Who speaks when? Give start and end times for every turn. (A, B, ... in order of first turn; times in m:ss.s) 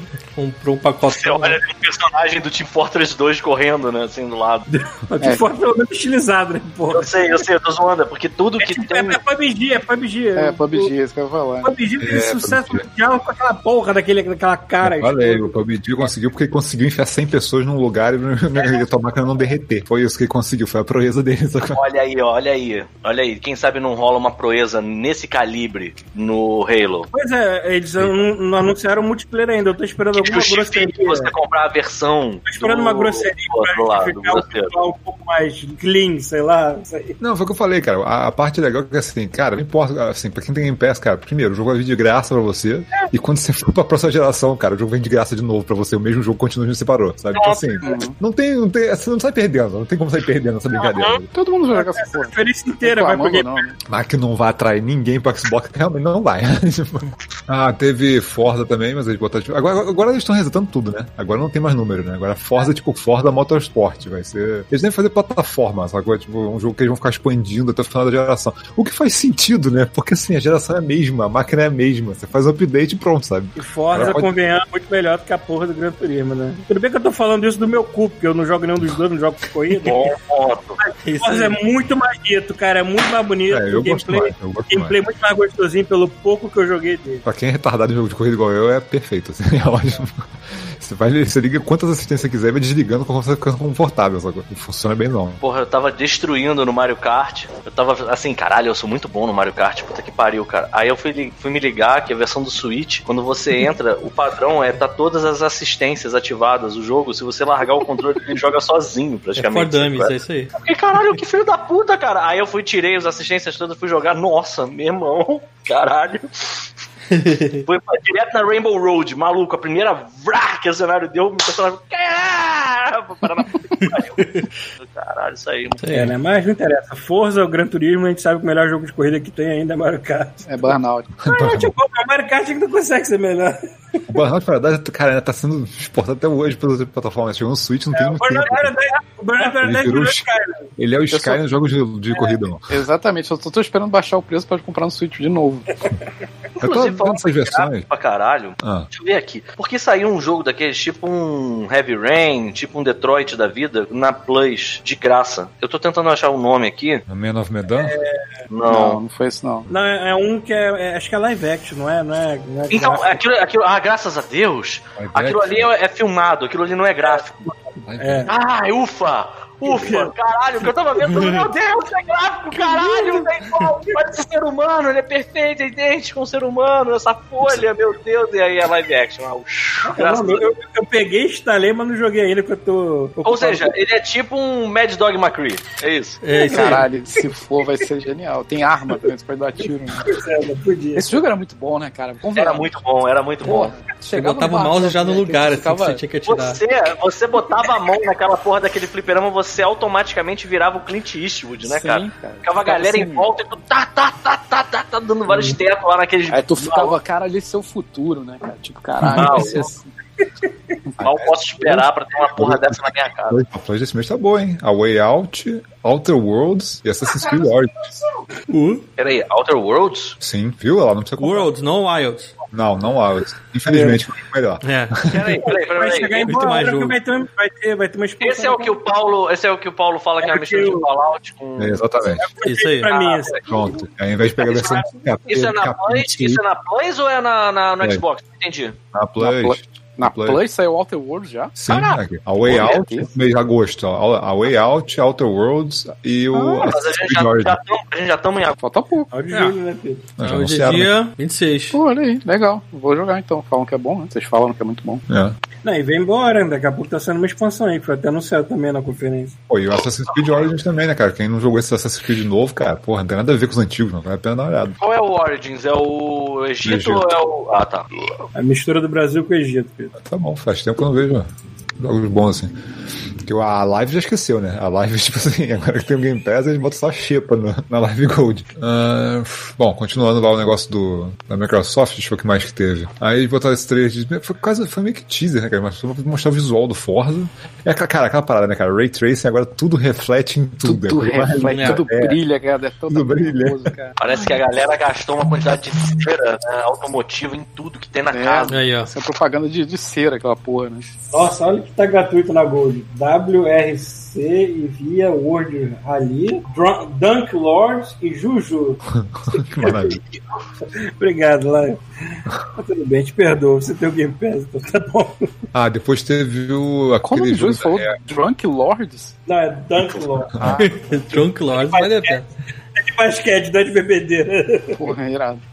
0:00.3-0:01.6 A
0:01.0-0:04.6 B
0:04.7-0:07.4 C
0:06.9-0:09.2 B
0:08.6-0:10.9 C
0:10.4-0:11.7 D
0:11.6-0:15.4 C
0:12.0-0:12.8 E
0:14.8-0:21.8 E
0:21.7-0:27.1 B
0:27.1-0:31.3 C
0:28.0-0:28.2 E
0:30.1-0:34.7 B
0:32.5-0:37.2 C
0:37.2-0:51.3 E
0:47.3-0:47.8 B
0:47.8-0:48.1 D
0:50.8-0:51.2 B
0:51.3-0:53.8 D
0:51.7-0:53.6 C
0:53.8-1:14.3 E
1:13.6-1:20.1 C
1:19.8-1:20.8 B
1:20.8-1:27.2 C
1:21.0-1:21.6 A
1:23.5-1:24.9 E
1:27.2-1:35.4 E
1:35.4-1:56.6 B
1:49.4-1:50.5 A
1:57.1-1:57.6 A
1:57.6-2:05.8 B
2:03.8-2:04.5 A
2:05.8-2:06.1 A
2:05.9-2:10.7 C
2:10.5-2:11.1 D
2:11.2-2:11.7 E
2:11.3-2:14.0 C
2:14.1-2:18.7 E
2:17.9-2:20.7 C
2:19.4-2:20.2 E
2:20.8-2:22.7 E
2:21.1-2:21.4 D
2:22.7-2:25.7 D
2:26.6-2:37.0 B
2:26.6-2:27.9 E
2:28.6-2:28.9 E
2:37.1-2:38.0 E
2:37.8-2:38.0 C
2:38.5-2:39.0 B
2:38.6-2:39.7 D
2:39.7-2:43.2 C
2:42.7-2:47.4 B
2:45.0-2:45.7 E
2:47.0-2:48.3 C
2:47.8-2:48.3 E
2:48.3-3:00.4 B
2:49.6-2:50.1 C
2:51.0-2:51.5 A
2:52.6-2:54.0 C
2:59.8-3:03.7 C
3:03.2-3:06.2 B
3:06.2-3:06.8 A
3:06.5-3:10.1 D
3:10.0-3:11.2 C
3:10.9-3:12.8 D
3:12.4-3:13.7 B
3:13.4-3:16.0 D
3:14.1-3:16.6 A
3:16.3-3:26.9 B
3:21.6-3:23.3 D
3:25.3-3:25.6 C
3:26.3-3:29.7 D
3:29.0-3:29.7 E
3:29.1-3:29.7 B
3:31.0-3:37.9 E
3:31.0-3:33.4 B
3:38.5-3:38.8 A
3:39.0-3:40.2 B
3:40.2-3:41.5 E
3:41.2-3:42.3 A
3:42.5-3:45.4 E
3:43.7-3:44.0 C
3:44.6-3:45.0 A
3:45.0-3:46.3 B
3:45.4-3:48.8 C
3:46.2-3:47.0 A
3:48.2-3:51.8 B
3:50.2-3:50.8 C
3:51.6-3:52.3 E
3:52.1-3:53.8 C
3:52.4-3:52.9 A
3:52.9-3:53.5 B
3:53.4-3:56.4 E
3:54.4-3:58.7 B
3:58.9-4:00.4 E
3:59.2-4:01.5 D
4:01.6-4:07.6 E
4:01.7-4:02.0 B
4:02.5-4:03.1 D
4:06.3-4:06.7 D
4:06.6-4:08.6 B
4:08.6-4:09.1 D
4:09.1-4:10.1 C
4:09.3-4:09.6 A
4:10.2-4:10.9 E
4:10.2-4:11.8 A
4:11.7-4:15.0 D
4:15.1-4:15.4 E
4:15.6-4:19.4 C
4:19.5-4:24.8 E
4:24.8-4:27.9 B
4:26.6-4:27.1 E
4:28.3-4:29.9 C
4:30.0-4:32.5 E
4:33.2-4:52.2 E
4:50.6-4:53.9 D
4:51.5-4:51.8 A
4:52.9-4:53.7 E
4:54.0-4:58.6 B
4:58.1-5:00.9 D
4:58.5-4:58.9 A
5:01.1-5:08.8 C
5:08.9-5:10.0 E
5:09.3-5:10.0 C
5:11.0-5:15.2 C
5:15.5-5:18.0 E
5:17.0-5:19.1 D
5:19.3-5:20.4 C
5:20.4-5:21.0 D
5:20.6-5:22.2 A
5:21.5-5:22.2 C
5:22.8-5:24.8 C
5:24.7-5:25.4 D